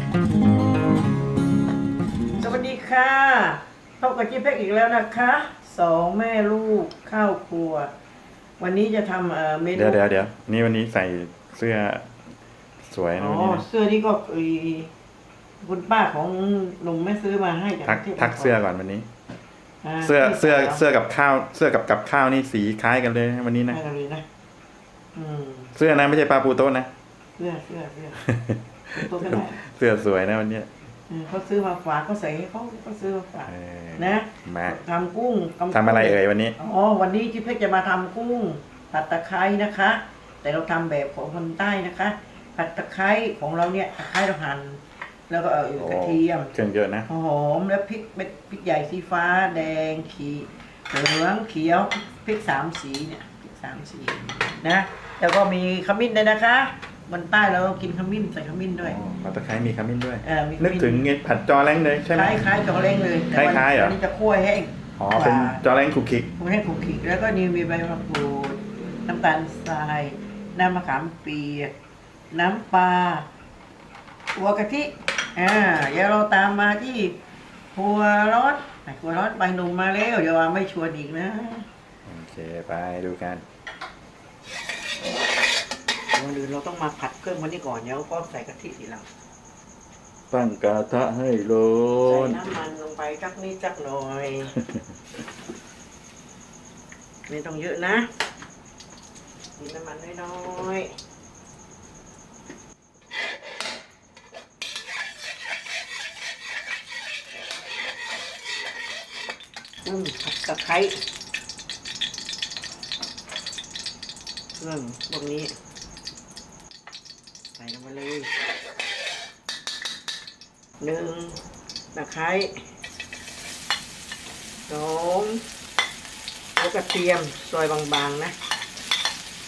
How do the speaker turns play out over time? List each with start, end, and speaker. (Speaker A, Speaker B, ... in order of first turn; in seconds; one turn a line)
Speaker A: 2.4-7.9
Speaker A: 8.6-10.0
Speaker B: 9.7-12.2
Speaker B: 12.8-13.7
Speaker A: 13.2-14.9
Speaker A: 15.6-18.6
Speaker B: 17.8-19.1
Speaker A: 19.8-20.8
Speaker B: 20.0-23.8
Speaker A: 23.7-24.2
Speaker A: 25.1-25.7
Speaker B: 25.7-26.9
Speaker A: 27.4-28.2
Speaker B: 28.2-30.7
Speaker A: 28.9-29.6
Speaker A: 31.1-46.5
Speaker B: 33.5-34.8
Speaker B: 35.7-36.6
Speaker B: 45.8-47.1
Speaker A: 47.1-59.0
Speaker B: 58.8-62.4
Speaker A: 60.2-61.0
Speaker A: 62.1-65.6
Speaker B: 63.3-64.0
Speaker B: 65.0-66.3
Speaker A: 66.4-71.7
Speaker A: 72.3-73.3
Speaker A: 74.3-77.2
Speaker A: 77.7-81.7
Speaker B: 82.0-83.4
Speaker A: 86.1-89.1
Speaker B: 90.3-92.4
Speaker A: 92.0-94.6
Speaker A: 97.3-98.1
Speaker A: 99.6-100.9
Speaker A: 109.8-111.0
Speaker A: 114.6-115.5
Speaker A: 117.5-118.3
Speaker A: 120.8-121.4
Speaker A: 121.9-122.7
Speaker A: 124.7-125.4
Speaker A: 126.5-128.3